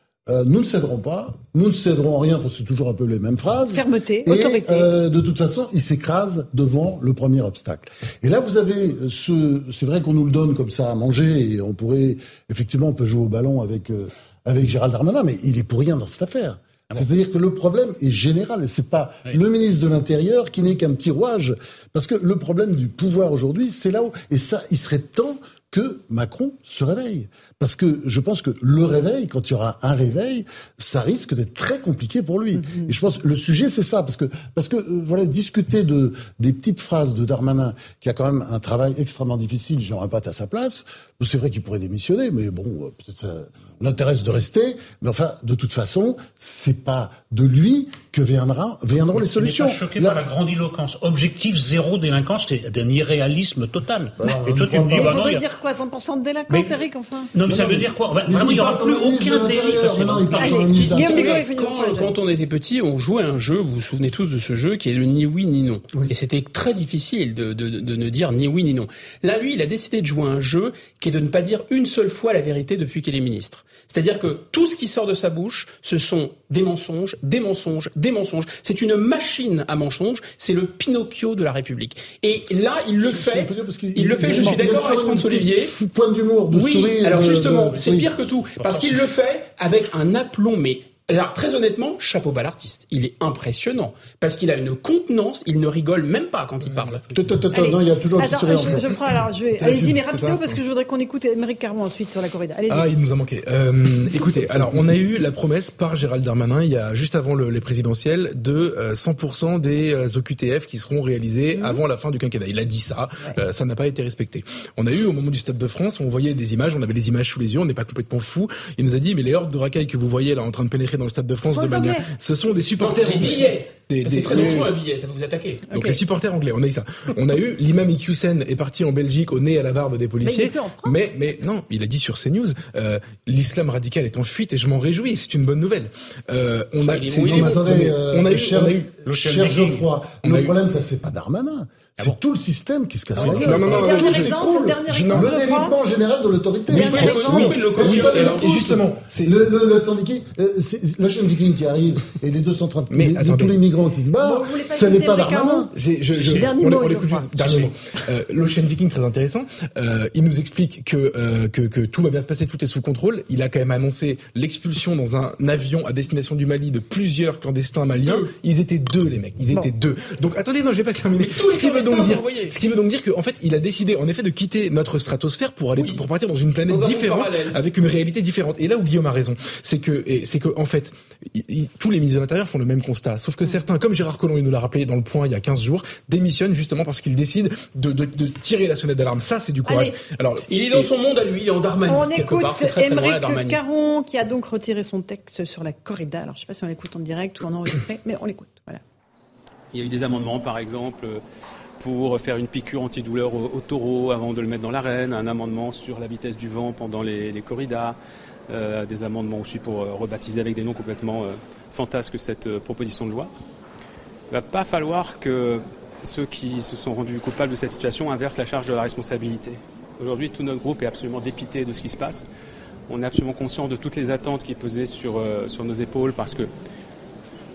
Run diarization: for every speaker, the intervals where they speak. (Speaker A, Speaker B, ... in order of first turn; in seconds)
Speaker A: 0.3-50.2, 54.2-55.1, 57.5-61.4, 83.0-88.1, 97.1-98.8, 137.2-144.3, 145.1-155.7
Speaker B: 3.7-4.9, 32.5-32.9, 54.9-57.3, 60.4-62.1, 97.5-102.9, 111.5-111.8, 121.5-122.0, 125.7-126.0, 130.2-131.1, 143.7-145.7, 154.2-157.7, 189.7-189.9, 191.8-198.8
Speaker C: 49.1-55.4, 57.3-60.8, 88.6-89.0, 139.0-139.8
Speaker D: 60.6-85.7, 86.5-97.1, 122.8-125.7, 136.8-137.6, 146.7-148.8, 168.0-168.3, 171.2-172.6, 175.8-176.0, 176.7-177.6, 190.5-193.6
Speaker E: 96.7-97.0, 99.6-100.6, 102.7-124.7, 125.7-138.9, 140.2-140.5, 143.2-145.3, 146.7-149.4, 152.9-153.6, 155.7-190.9
Speaker F: 199.7-201.2, 201.8-208.0, 208.5-213.3, 214.3-222.2, 222.9-226.5